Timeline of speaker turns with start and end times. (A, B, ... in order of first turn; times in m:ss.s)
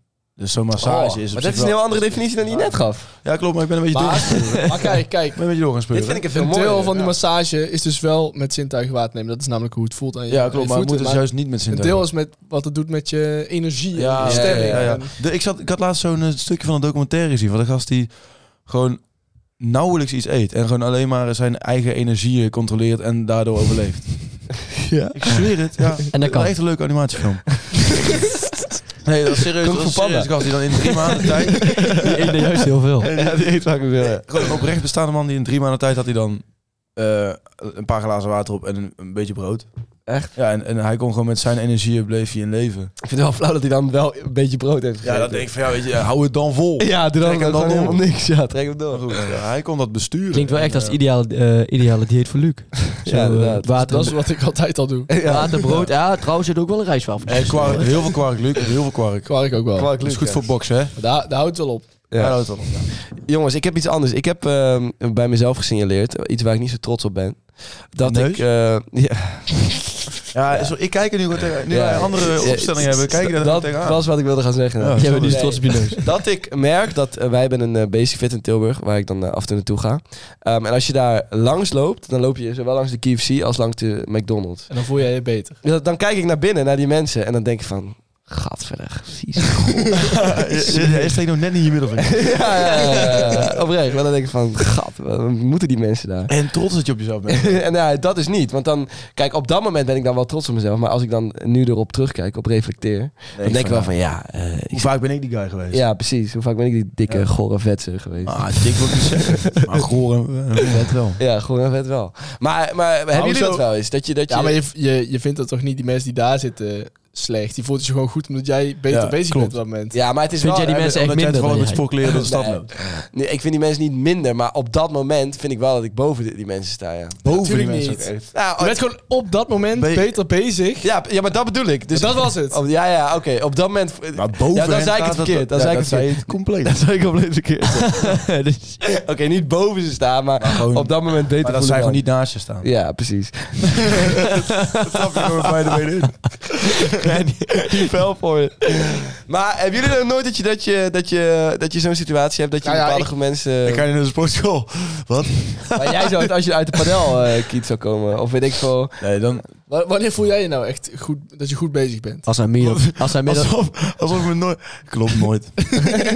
0:00.4-0:06.2 A
0:00.8-0:03.1 B
0:03.9-0:05.4 C
0:05.9-0:07.2 B
0:06.3-0:15.1 C
0:10.3-0:12.1 A
0:13.9-0:19.0 A
0:14.2-0:14.9 B
0:19.6-0:24.6 A
0:24.8-0:26.1 B
0:25.1-0:27.9 A
0:26.1-0:26.5 D
0:29.0-0:32.0 A
0:29.6-0:32.1 B
0:31.8-0:33.1 D
0:33.0-0:33.5 A
0:33.0-0:34.6 B
0:34.2-0:39.6 A
0:40.1-0:40.3 B
0:40.3-0:42.9 A
0:43.0-0:45.5 B
0:45.0-0:48.0 A
0:46.8-0:49.4 B
0:48.9-0:51.0 A
0:50.3-0:54.2 D
0:53.0-0:53.7 B
0:53.8-0:55.1 C
0:55.1-0:55.8 B
0:55.2-0:58.2 D
0:55.6-0:55.9 A
0:57.2-0:59.4 A
0:59.2-0:59.9 C
0:59.7-1:00.5 B
1:00.0-1:00.9 A
1:00.9-1:01.9 C
1:02.1-1:10.8 B
1:02.2-1:02.9 A
1:08.0-1:08.4 A
1:10.3-1:15.6 A
1:11.7-1:24.8 B
1:15.0-1:16.0 D
1:24.7-1:25.6 C
1:25.6-1:31.1 B
1:30.1-1:32.8 A
1:32.1-1:36.4 B
1:36.3-1:37.6 A
1:37.3-1:44.9 B
1:43.3-1:44.1 A
1:44.7-1:45.8 A
1:45.7-1:49.8 B
1:48.2-1:51.2 A
1:51.2-1:54.6 B
1:53.1-1:53.6 C
1:54.3-2:00.0 C
1:58.9-1:59.6 A
1:59.9-2:01.0 B
2:00.3-2:01.9 D
2:00.9-2:02.8 A
2:02.1-2:07.2 B
2:07.2-2:08.2 A
2:07.3-2:10.9 C
2:08.2-2:08.8 B
2:09.7-2:10.2 A
2:10.8-2:18.2 B
2:11.9-2:12.6 C
2:14.1-2:16.8 A
2:17.8-2:18.8 D
2:18.8-2:24.0 B
2:20.4-2:22.7 A
2:24.6-2:25.0 D
2:24.8-2:26.5 A
2:26.9-2:27.9 D
2:27.7-2:33.9 B
2:32.6-2:33.1 C
2:33.6-2:35.7 A
2:35.7-2:39.0 B
2:39.0-2:39.5 A
2:39.7-2:42.4 C
2:42.2-2:43.7 D
2:42.6-2:45.8 A